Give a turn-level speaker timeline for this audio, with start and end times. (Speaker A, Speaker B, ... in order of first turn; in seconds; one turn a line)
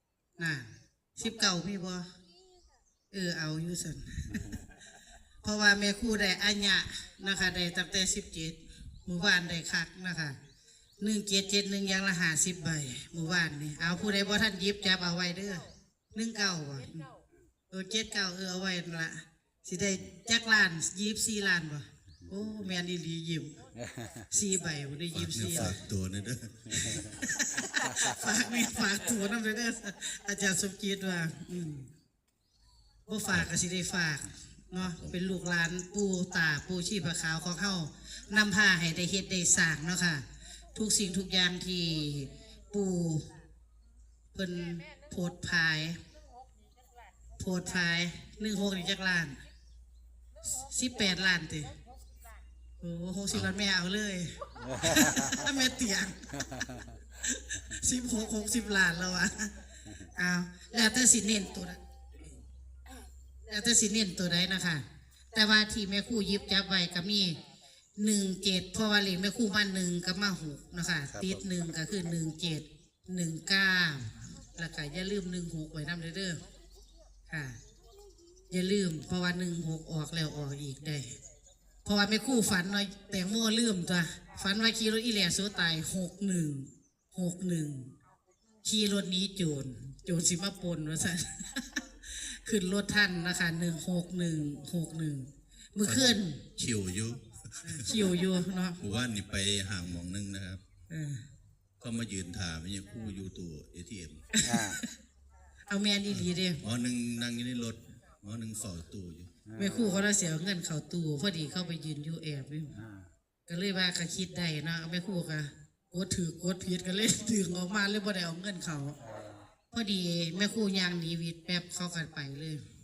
Speaker A: 0.4-2.1
Speaker A: 3.1-4.6
Speaker A: 5.4-10.4
Speaker A: 11.0-17.1
Speaker A: 17.7-23.7
Speaker B: 23.9-24.2
Speaker A: 24.3-25.8
Speaker C: 25.1-27.3
Speaker A: 27.1-31.9
Speaker B: 27.8-28.1
Speaker A: 33.1-43.3
Speaker C: 34.8-35.2
Speaker A: 44.3-46.0
Speaker A: 47.4-49.4
Speaker A: 50.4-51.8
Speaker A: 52.8-56.3
Speaker B: 54.8-55.4
Speaker A: 57.1-61.8
Speaker A: 63.4-67.4
Speaker A: 68.0-76.4
Speaker B: 71.1-71.4
Speaker A: 77.3-77.6
Speaker A: 78.5-81.2
Speaker A: 81.8-87.9
Speaker A: 88.6-96.5
Speaker C: 95.8-98.2
Speaker A: 97.6-98.8
Speaker C: 98.8-100.6
Speaker A: 100.9-101.2
Speaker C: 101.8-104.4
Speaker A: 104.3-104.9
Speaker B: 104.4-104.8
Speaker A: 105.7-106.6
Speaker C: 106.1-109.3
Speaker B: 109.5-110.0
Speaker A: 109.5-112.8
Speaker B: 112.8-113.1
Speaker A: 113.5-119.0
Speaker B: 119.1-119.4
Speaker A: 119.7-122.6